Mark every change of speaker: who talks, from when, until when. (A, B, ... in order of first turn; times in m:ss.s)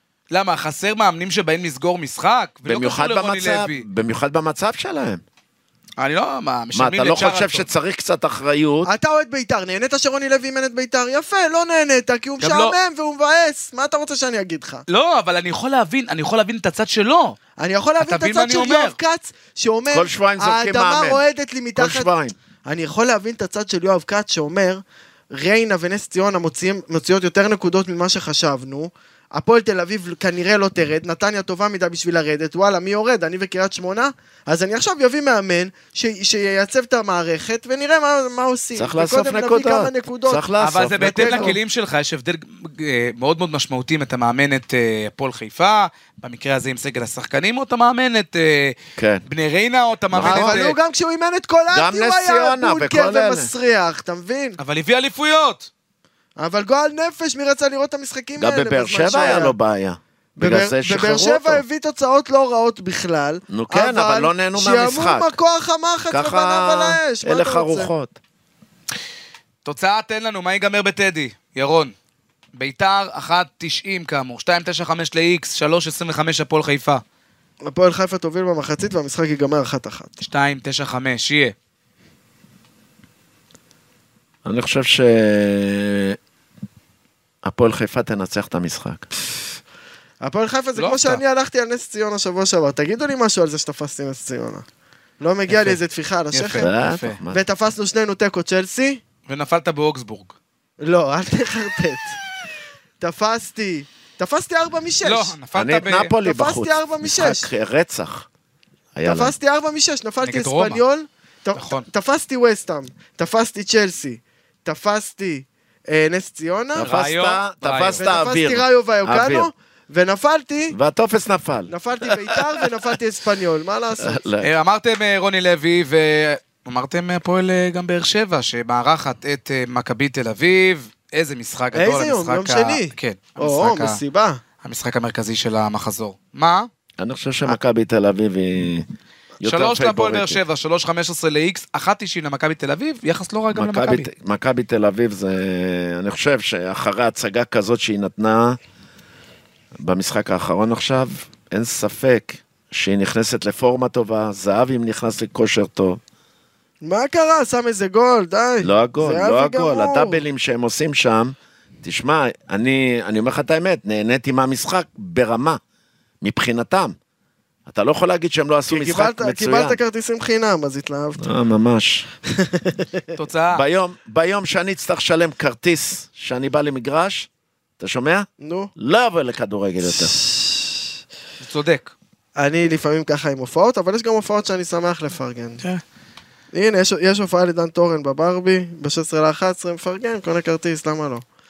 0:00.3-0:03.8 A
0:02.6-0:05.2 B
0:06.0-0:07.6 A
0:06.7-0:08.9 B
0:08.8-0:14.8 C
0:12.4-0:12.8 A
0:14.9-0:17.4 A
0:17.6-0:22.1 C
0:18.0-0:19.0 A
0:19.9-0:21.2 B
0:21.8-0:22.3 B
0:22.6-0:41.6 C
0:38.8-0:41.6 B
0:40.6-0:48.8 A
0:49.0-0:49.2 B
0:49.3-0:50.8 A
0:50.1-0:50.6 B
0:50.2-0:54.6 C
0:51.7-0:53.5 B
0:54.6-0:55.7 A
0:56.4-0:59.5 C
0:58.4-1:01.6 B
1:00.4-1:07.9 C
1:03.5-1:05.4 B
1:06.1-1:08.2 B
1:09.6-1:11.9 A
1:12.5-1:17.0 A
1:17.6-1:20.2 C
1:20.2-1:21.5 A
1:24.4-1:26.2 B
1:27.4-1:29.0 B
1:30.2-1:34.6 C
1:30.8-1:31.2 A
1:35.2-1:36.7 C
1:35.5-1:35.8 A
1:36.3-1:37.2 A
1:36.6-1:37.4 B
1:37.3-1:39.0 C
1:39.3-1:40.3 A
1:40.8-1:42.2 C
1:43.0-1:45.3 C
1:45.0-1:46.1 A
1:45.5-1:48.2 B
1:46.2-1:47.5 C
1:48.9-1:49.3 B
1:49.0-1:56.9 C
1:50.2-1:50.8 A
1:51.6-1:51.9 A
1:56.7-1:59.5 B
1:56.8-1:58.0 A
1:58.0-2:00.8 C
2:00.7-2:02.6 B
2:01.7-2:04.2 C
2:04.0-2:04.5 B
2:04.4-2:14.0 A
2:11.7-2:14.4 C
2:14.6-2:16.7 A
2:17.0-2:18.8 B
2:19.4-2:20.4 B
2:19.4-2:24.1 A
2:23.5-2:28.6 B
2:29.8-2:36.0 B
2:36.8-2:40.2 C
2:38.6-2:45.6 B
2:46.2-2:46.9 B
2:47.6-2:49.8 B
2:48.7-2:51.2 C
2:51.2-2:52.0 B
2:52.2-2:53.1 C
2:53.2-2:53.6 A
2:53.5-2:57.3 B
2:57.8-3:00.1 B
2:58.4-2:58.7 C
2:59.9-3:00.7 C
3:01.4-3:01.9 A
3:02.4-3:05.6 C
3:06.5-3:11.2 C